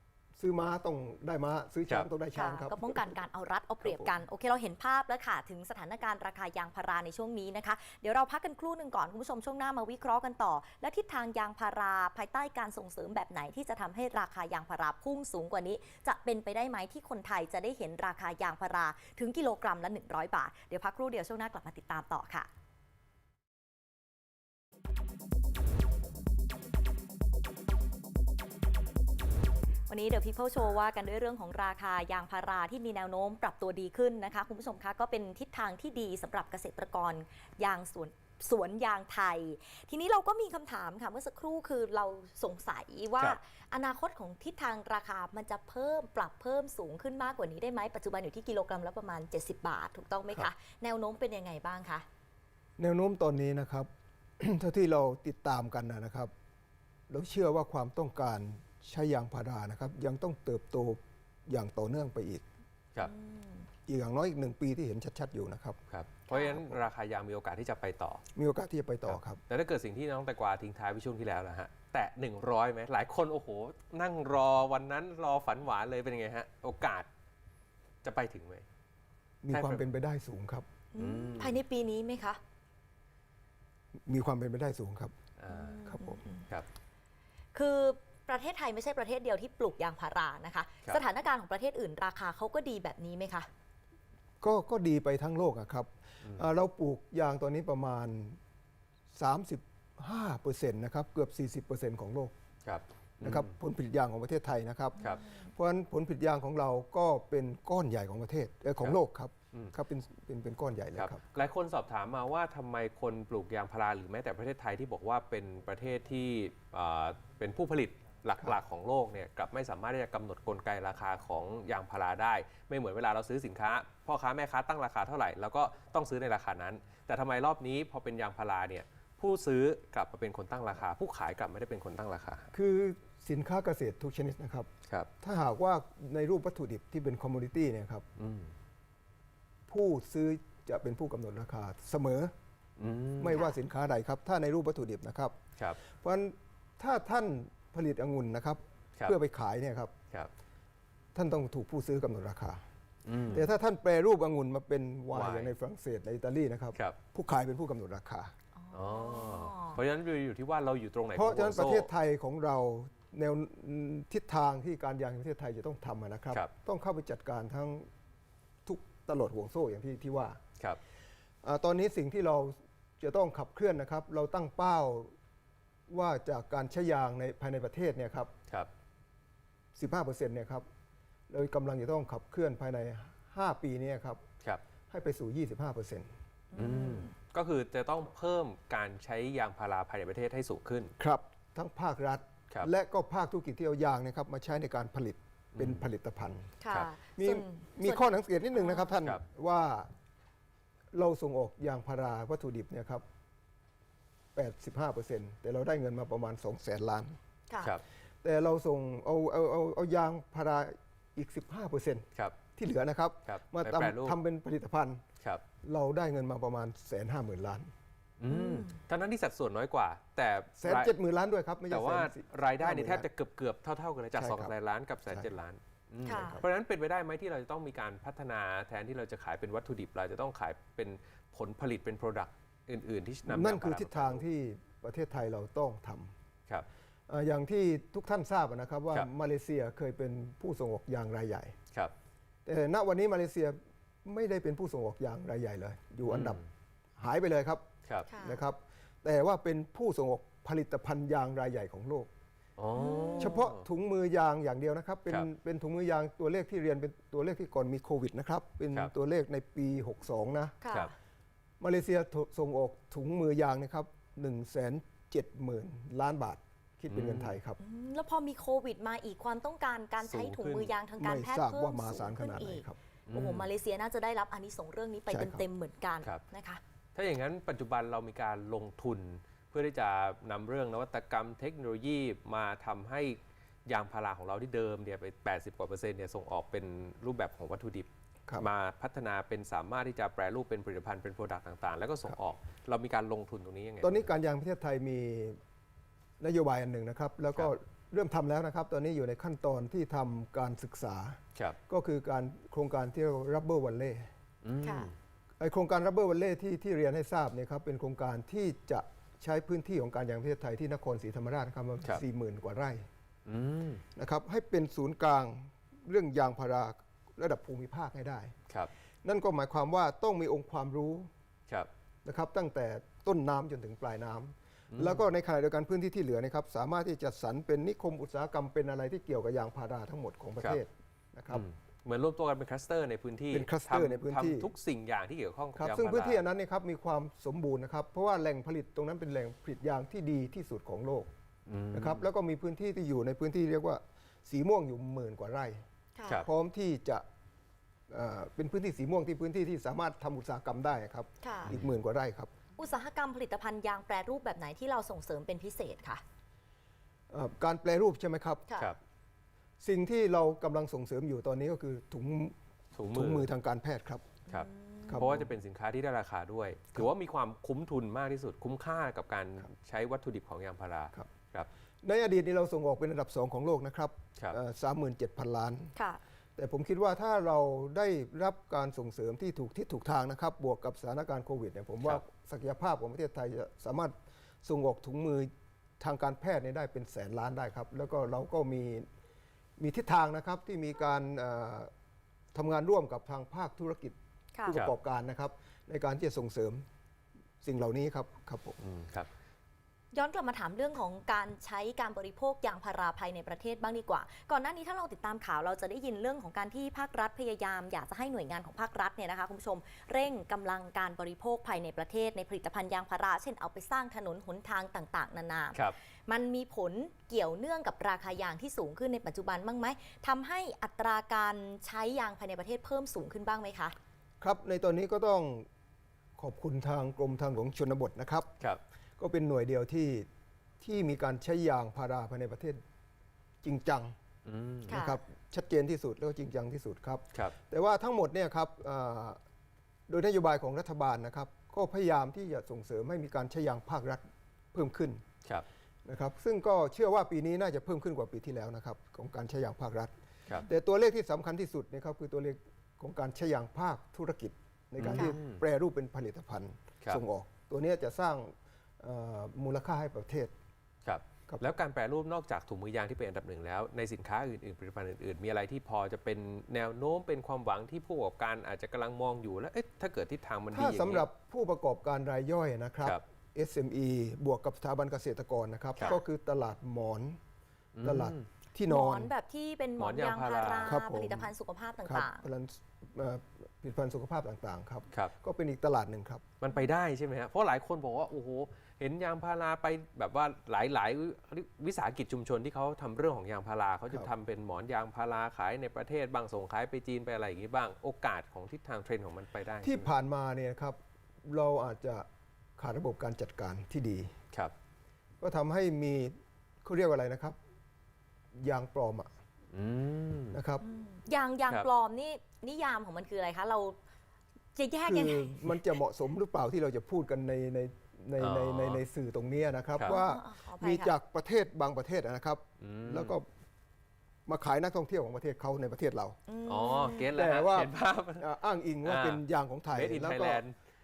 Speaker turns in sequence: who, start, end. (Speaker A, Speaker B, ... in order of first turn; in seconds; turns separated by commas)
Speaker A: 0.4-3.2, Speaker B: 2.4-22.5, Speaker A: 3.8-4.2, Speaker B: 29.9-52.0, Speaker A: 52.8-56.3, Speaker A: 57.1-62.5, Speaker B: 63.0-63.7, Speaker A: 63.9-65.8, Speaker C: 65.9-68.2, Speaker B: 66.3-66.6, Speaker A: 68.3-69.4, Speaker C: 69.1-77.1, Speaker C: 78.0-78.7, Speaker A: 79.4-80.7, Speaker C: 79.5-79.8, Speaker B: 80.9-82.4, Speaker C: 81.0-81.6, Speaker A: 84.1-85.2, Speaker C: 85.4-85.9, Speaker B: 85.5-86.5, Speaker A: 85.9-86.2, Speaker B: 87.5-93.5, Speaker A: 94.4-98.4, Speaker A: 99.1-102.3, Speaker C: 102.7-103.5, Speaker A: 103.2-111.2, Speaker C: 105.0-105.3, Speaker B: 105.1-105.5, Speaker C: 111.0-132.5, Speaker A: 132.5-134.7, Speaker A: 135.2-138.1, Speaker C: 138.2-138.5, Speaker A: 139.7-142.3, Speaker C: 142.8-143.4, Speaker A: 143.2-149.9, Speaker A: 151.2-152.6, Speaker C: 153.1-153.5, Speaker A: 153.3-158.3, Speaker C: 155.1-155.5, Speaker B: 158.6-159.8, Speaker C: 158.7-161.9, Speaker A: 161.1-167.9, Speaker A: 168.7-170.4, Speaker A: 171.4-175.1, Speaker A: 175.9-178.3, Speaker A: 179.8-180.7, Speaker A: 181.3-184.2, Speaker A: 184.9-186.1, Speaker B: 186.5-187.1, Speaker C: 186.6-190.9, Speaker A: 191.0-196.5, Speaker C: 195.6-195.8, Speaker B: 196.6-198.9, Speaker A: 197.2-199.9, Speaker A: 200.9-203.1, Speaker A: 204.3-207.2, Speaker A: 208.2-215.0, Speaker C: 213.3-214.2, Speaker A: 215.6-217.7, Speaker C: 218.2-220.9, Speaker B: 218.3-218.8, Speaker A: 220.6-223.1, Speaker C: 221.7-234.2, Speaker A: 224.2-224.5, Speaker A: 226.0-226.4, Speaker B: 226.1-226.4, Speaker A: 233.3-236.2, Speaker A: 237.1-241.6, Speaker A: 242.4-246.4, Speaker C: 246.1-246.4, Speaker A: 247.0-247.7, Speaker B: 248.1-248.4, Speaker A: 248.2-252.1, Speaker C: 252.6-253.7, Speaker B: 252.7-253.4, Speaker A: 253.2-260.6, Speaker B: 260.6-260.9, Speaker A: 261.6-267.6, Speaker C: 266.9-267.4, Speaker B: 267.6-276.6, Speaker C: 270.0-270.7, Speaker A: 271.0-272.8, Speaker C: 273.1-273.5, Speaker A: 275.1-275.4, Speaker C: 276.9-294.1, Speaker A: 293.8-295.4, Speaker A: 296.2-304.1, Speaker C: 304.4-304.9, Speaker B: 304.6-304.9, Speaker A: 305.4-312.9, Speaker C: 313.3-313.8, Speaker A: 313.9-318.4, Speaker A: 319.0-321.1, Speaker A: 322.1-331.5, Speaker C: 324.7-325.0, Speaker C: 331.3-336.2, Speaker A: 333.3-334.5, Speaker A: 335.6-341.1, Speaker C: 341.5-342.0, Speaker A: 341.7-345.6, Speaker B: 346.0-346.2, Speaker A: 346.2-347.1, Speaker A: 347.9-352.4, Speaker B: 351.2-351.5, Speaker B: 352.6-356.0, Speaker A: 357.1-358.6, Speaker B: 358.5-358.8, Speaker A: 359.6-362.4, Speaker C: 362.8-363.3, Speaker A: 362.9-364.2, Speaker B: 364.3-365.1, Speaker C: 364.3-371.5, Speaker A: 364.9-365.3, Speaker A: 371.8-375.7, Speaker A: 376.4-388.9, Speaker A: 389.6-391.7, Speaker A: 392.3-396.7, Speaker A: 397.4-398.6, Speaker C: 398.6-399.1, Speaker B: 399.9-423.8, Speaker A: 424.2-425.5, Speaker A: 426.2-428.3, Speaker A: 429.0-430.1, Speaker A: 430.6-432.6, Speaker A: 433.4-434.0, Speaker C: 434.3-434.8, Speaker A: 434.7-439.2, Speaker B: 434.7-435.0, Speaker A: 439.9-445.1, Speaker A: 445.9-449.9, Speaker A: 450.4-460.3, Speaker C: 454.8-455.4, Speaker C: 460.9-471.1, Speaker A: 470.5-477.2, Speaker C: 477.8-478.3, Speaker A: 477.8-479.1, Speaker B: 478.7-482.2, Speaker C: 479.8-480.8, Speaker A: 480.6-481.3, Speaker A: 481.9-486.2, Speaker C: 486.4-499.9, Speaker A: 499.6-504.1, Speaker A: 505.2-507.4, Speaker A: 508.4-509.1, Speaker C: 509.5-510.4, Speaker A: 510.3-510.6, Speaker B: 510.6-513.8, Speaker B: 514.5-515.6, Speaker A: 514.8-523.3, Speaker C: 518.2-518.8, Speaker B: 519.8-520.9, Speaker C: 522.6-523.1, Speaker A: 524.3-526.2, Speaker B: 526.3-527.1, Speaker C: 526.5-528.3, Speaker A: 527.1-530.4, Speaker C: 528.8-530.5